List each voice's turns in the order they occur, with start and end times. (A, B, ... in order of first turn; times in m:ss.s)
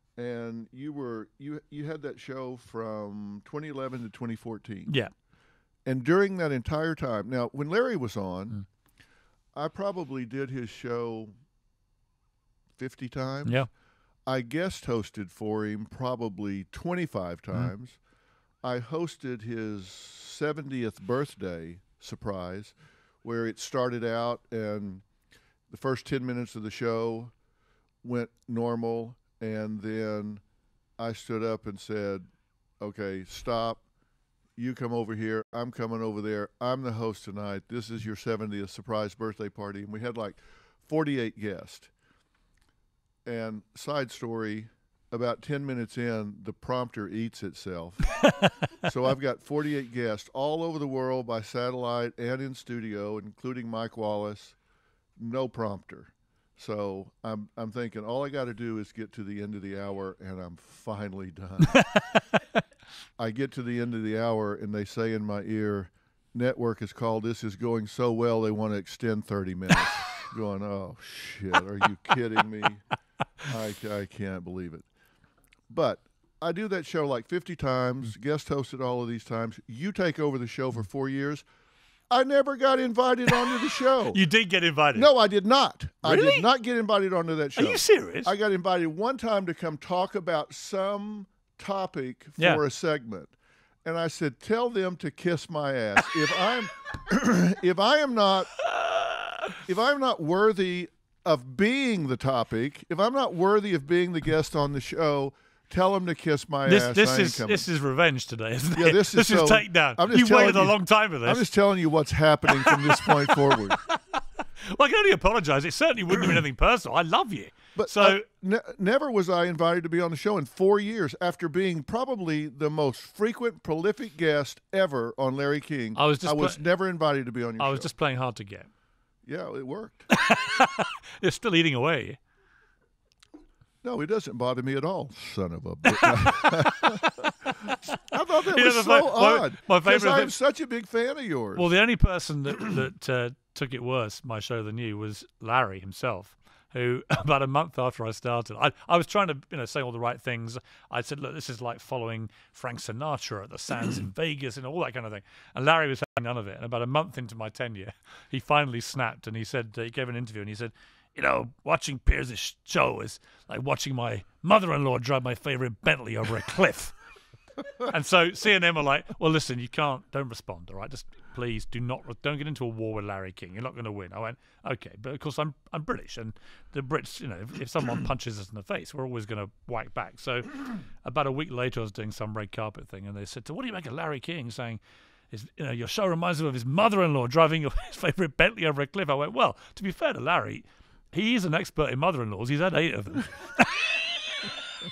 0:00.2-0:05.0 A
0:05.9-0:08.6 A
0:09.6-0:11.3 A
0:12.8-0:13.6 A
0:14.3-0:18.0 A
0:18.6-0:25.0 A
0:25.7-0:27.3 A
0:28.0-0:30.4 A
0:31.0-0:32.2 A
0:32.8-0:33.8 A
0:34.6-0:41.9 A
0:43.3-0:48.2 A
0:48.2-0:48.5 B
0:48.8-0:54.6 A
0:55.2-1:01.8 A
1:01.7-1:02.4 B
1:03.2-1:12.8 A
1:13.4-1:14.9 A
1:15.7-1:21.4 A
1:22.1-1:24.2 A
1:24.1-1:25.1 B
1:25.0-1:38.5 A
1:26.0-1:26.4 B
1:27.6-1:28.3 B
1:38.7-1:39.5 B
1:39.6-1:47.7 A
1:46.7-1:51.5 B
1:48.8-1:53.8 A
1:52.7-1:58.2 B
1:57.8-2:07.9 A
2:06.0-2:06.6 B
2:07.6-2:08.7 B
2:09.3-2:10.1 A
2:10.1-2:12.2 B
2:13.8-2:21.7 A
2:15.9-2:17.8 B
2:18.5-2:20.3 B
2:21.6-2:46.9 B
2:47.8-3:14.6 B